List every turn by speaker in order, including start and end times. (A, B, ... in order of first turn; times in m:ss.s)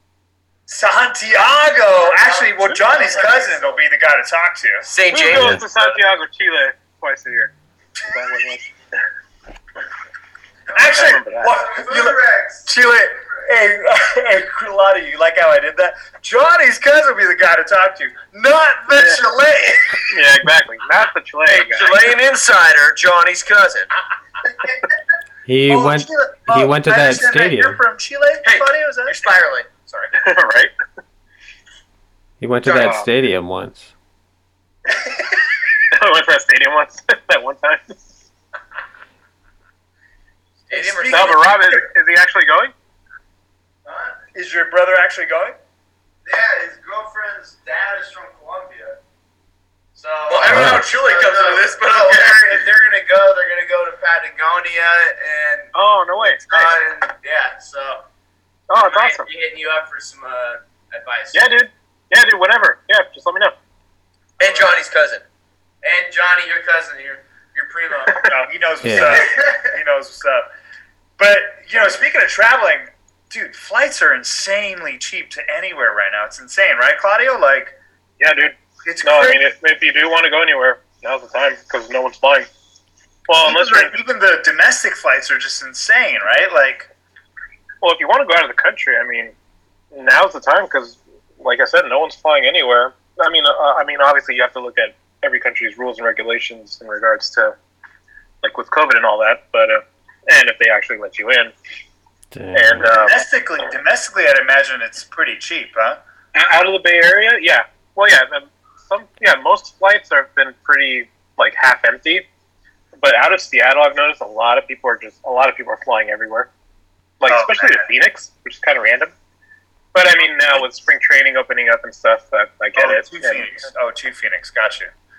0:00.7-0:04.9 A
0:02.0-0:03.8 B
0:04.8-0:06.0 C
0:05.1-0:07.5 D
0:05.3-0:05.6 E
0:08.0-0:08.7 D
0:10.7-0:20.2 A
0:10.8-0:11.6 D
0:11.5-0:12.7 B
0:18.9-0:19.2 D
0:20.1-0:22.1 D
0:21.4-0:23.9 C
0:25.4-0:27.8 E
0:25.7-0:29.3 A
0:28.4-0:30.1 C
0:30.1-0:30.7 D
0:32.4-0:33.9 E
0:32.7-0:33.1 D
0:35.9-0:38.2 D
0:40.7-0:41.5 C
0:40.7-0:41.8 A
0:41.0-0:42.7 D
0:43.8-0:44.2 B
0:44.3-0:45.6 A
0:46.2-0:49.0 B
0:50.0-0:58.0 B
0:50.2-0:52.6 C
0:50.5-0:50.8 E
0:55.7-0:56.5 D
0:58.7-0:59.3 D
0:58.7-1:01.5 B
1:01.3-1:03.6 D
1:04.4-1:05.2 C
1:04.4-1:04.8 B
1:05.8-1:08.3 B
1:08.2-1:10.5 A
1:08.8-1:09.3 E
1:09.0-1:09.6 B
1:11.2-1:17.7 A
1:18.2-1:22.5 D
1:18.8-1:19.5 A
1:23.3-1:24.0 D
1:23.3-1:26.9 A
1:27.8-1:29.3 D
1:29.9-1:37.5 D
1:38.4-1:41.5 D
1:42.3-1:43.0 E
1:42.5-1:43.2 D
1:42.8-1:46.0 A
1:46.3-1:52.3 D
1:53.0-1:56.5 D
1:57.2-1:59.1 D
1:57.2-1:57.9 A
1:59.9-2:03.7 D
2:02.7-2:04.9 A